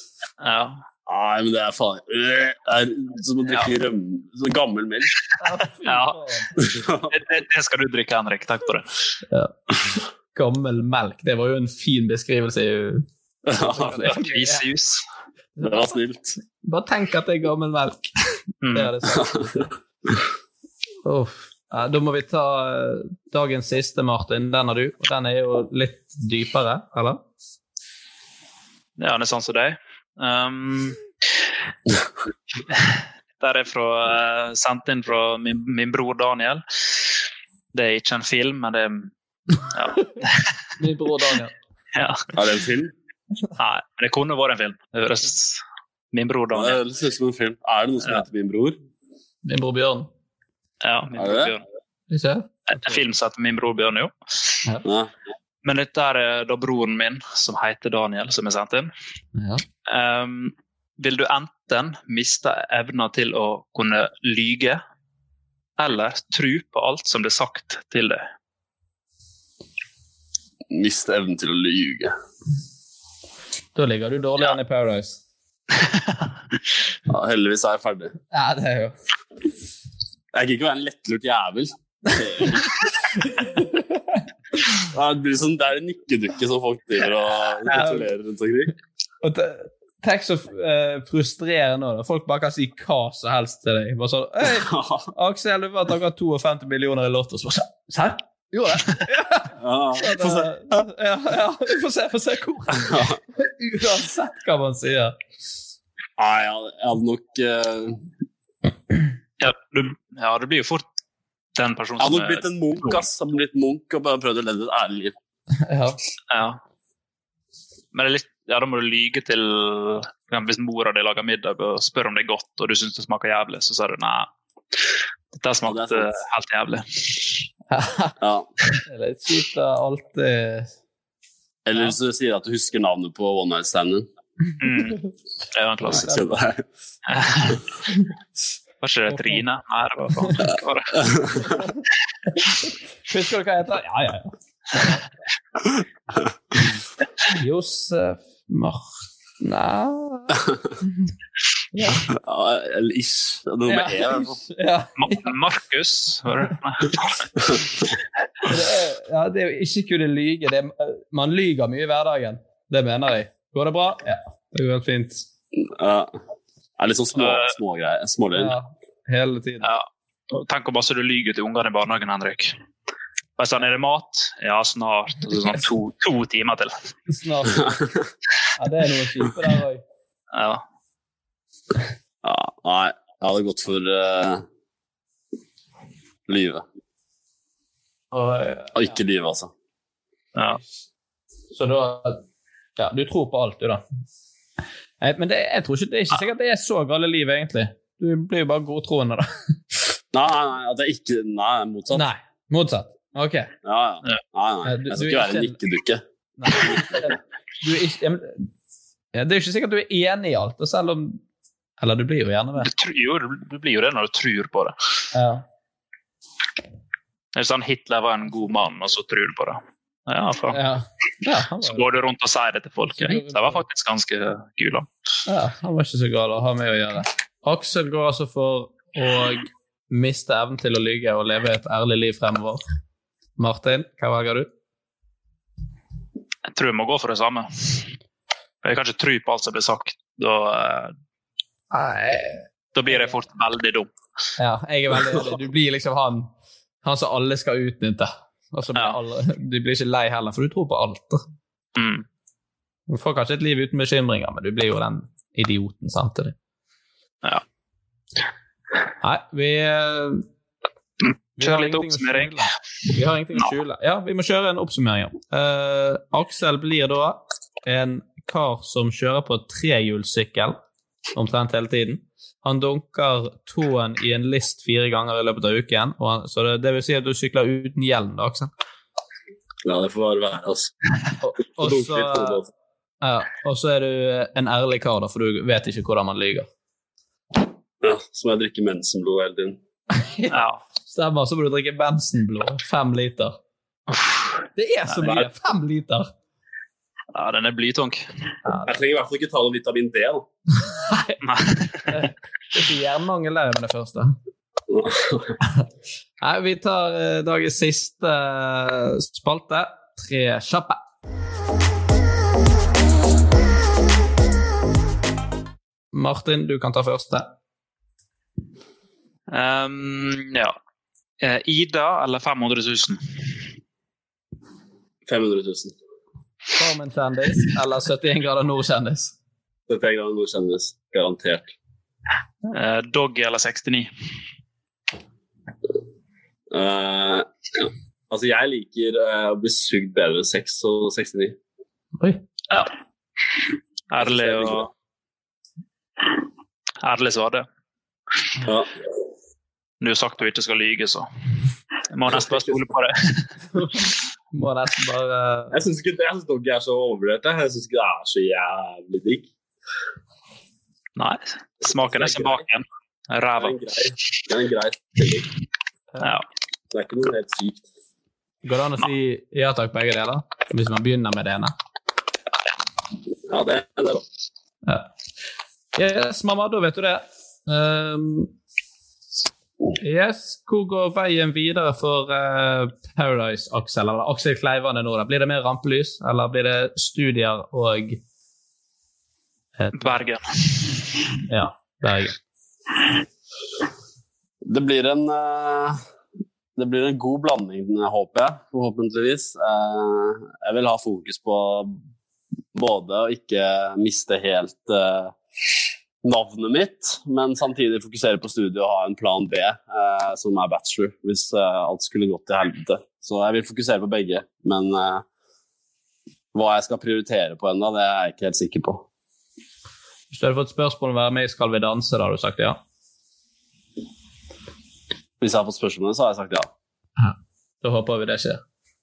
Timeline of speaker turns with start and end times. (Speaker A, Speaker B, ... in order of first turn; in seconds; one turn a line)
Speaker A: 0.4-0.8
Speaker B: 1.1-5.1
Speaker A: 3.5-3.7
Speaker C: 5.4-6.6
Speaker A: 5.8-6.2
Speaker B: 6.6-7.1
Speaker A: 7.1-8.8
Speaker C: 9.3-13.1
Speaker B: 13.4-14.1
Speaker C: 13.6-14.6
Speaker A: 14.0-15.0
Speaker B: 15.6-16.4
Speaker C: 16.6-18.1
Speaker A: 18.6-18.9
Speaker C: 18.7-19.6
Speaker B: 19.1-19.5
Speaker C: 21.0-27.2
Speaker A: 29.0-31.0
Speaker A: 32.7-36.6
Speaker A: 37.7-40.5
Speaker C: 40.8-41.5
Speaker A: 41.9-42.3
Speaker B: 42.4-42.9
Speaker A: 43.6-45.6
Speaker A: 46.1-46.8
Speaker B: 46.5-48.8
Speaker C: 49.4-50.1
Speaker A: 50.8-51.6
Speaker B: 51.1-51.5
Speaker C: 52.1-53.0
Speaker A: 52.7-54.5
Speaker B: 54.8-55.1
Speaker A: 55.6-58.9
Speaker C: 59.3-59.6
Speaker A: 59.9-64.8
Speaker A: 65.8-68.2
Speaker B: 70.7-72.1
Speaker C: 73.8-75.2
Speaker B: 77.1-78.1
Speaker C: 78.3-78.9
Speaker B: 80.3-83.0
Speaker C: 83.2-84.2
Speaker B: 84.8-88.7
Speaker C: 87.7-88.0
Speaker C: 89.2-105.1
Speaker B: 94.6-95.1
Speaker B: 99.6-100.5
Speaker B: 102.7-103.2
Speaker B: 106.2-108.0
Speaker A: 109.4-110.8
Speaker A: 111.5-113.0
Speaker B: 112.0-115.1
Speaker C: 115.6-116.0
Speaker A: 116.3-116.6
Speaker A: 117.9-124.3
Speaker A: 125.3-127.4
Speaker B: 125.6-126.1
Speaker C: 127.7-128.1
Speaker B: 128.2-128.5
Speaker C: 128.8-130.7
Speaker B: 131.7-134.1
Speaker A: 134.6-136.1
Speaker B: 135.8-136.6
Speaker A: 137.1-137.6
Speaker A: 138.8-141.1
Speaker C: 139.1-139.4
Speaker B: 140.9-141.5
Speaker C: 141.5-141.8
Speaker C: 142.6-144.3
Speaker C: 147.3-148.8
Speaker C: 149.4-150.9
Speaker C: 151.7-152.0
Speaker B: 152.1-154.4
Speaker C: 153.7-155.3
Speaker A: 155.0-157.1
Speaker C: 158.5-165.2
Speaker B: 165.6-166.2
Speaker B: 166.8-168.5
Speaker A: 167.2-167.5
Speaker C: 168.3-169.7
Speaker A: 169.6-172.5
Speaker A: 173.4-176.7
Speaker C: 177.1-177.7
Speaker B: 177.6-178.1
Speaker C: 178.6-179.8
Speaker A: 180.3-180.6
Speaker B: 182.2-184.4
Speaker B: 186.3-186.6
Speaker C: 188.1-189.0
Speaker B: 188.7-189.5
Speaker A: 190.3-190.6
Speaker C: 191.5-192.2
Speaker C: 192.8-193.8
Speaker C: 195.0-199.3
Speaker B: 200.1-202.1
Speaker C: 201.9-203.5
Speaker B: 203.6-206.0
Speaker C: 204.6-205.6
Speaker C: 206.4-208.5
Speaker B: 206.6-207.0
Speaker C: 209.1-211.2
Speaker C: 211.8-212.7
Speaker A: 212.6-214.7
Speaker C: 215.1-215.4
Speaker A: 217.3-220.6
Speaker C: 220.5-221.8
Speaker A: 221.6-224.9
Speaker C: 223.0-223.6
Speaker C: 225.3-232.6
Speaker C: 233.4-234.5
Speaker A: 236.5-237.8
Speaker A: 238.6-240.9
Speaker C: 241.7-243.2
Speaker A: 242.7-243.9
Speaker C: 244.4-246.3
Speaker C: 246.8-251.2
Speaker A: 251.8-252.0
Speaker C: 252.9-256.3
Speaker C: 259.0-260.2
Speaker A: 261.0-262.4
Speaker C: 261.4-270.6
Speaker C: 271.1-278.5
Speaker B: 279.6-280.7
Speaker C: 281.2-282.4
Speaker B: 281.6-282.5
Speaker C: 283.0-286.5
Speaker B: 287.8-289.6
Speaker C: 289.9-293.4
Speaker A: 290.3-290.6
Speaker A: 293.9-294.2
Speaker C: 294.6-296.1
Speaker A: 297.1-298.0
Speaker C: 298.4-298.8
Speaker B: 298.6-300.2
Speaker C: 300.7-301.2
Speaker A: 301.2-301.9
Speaker C: 301.9-304.2
Speaker B: 304.7-305.4
Speaker C: 306.2-310.8
Speaker C: 315.9-317.3
Speaker A: 319.3-320.5
Speaker A: 321.2-323.0
Speaker B: 325.1-325.7
Speaker C: 326.5-329.1
Speaker B: 329.7-331.5
Speaker A: 332.5-333.9
Speaker B: 336.5-341.4
Speaker A: 343.9-344.7
Speaker B: 344.0-344.7
Speaker A: 346.8-347.4
Speaker B: 348.4-348.7
Speaker A: 349.8-351.1
Speaker A: 351.9-353.3
Speaker B: 352.1-352.6
Speaker C: 353.5-355.5
Speaker B: 355.5-359.3
Speaker A: 361.0-363.6
Speaker B: 361.7-362.4
Speaker B: 363.4-365.3
Speaker B: 366.7-367.6
Speaker C: 368.4-371.5
Speaker B: 373.3-374.0
Speaker C: 375.7-378.3
Speaker C: 379.8-388.0
Speaker C: 389.6-390.1
Speaker A: 389.8-390.6
Speaker C: 391.3-392.1
Speaker B: 394.4-395.8
Speaker B: 396.6-401.8
Speaker B: 402.5-405.1
Speaker B: 406.0-415.0
Speaker B: 416.3-418.9
Speaker C: 420.1-422.6
Speaker B: 425.2-426.5
Speaker C: 427.0-428.4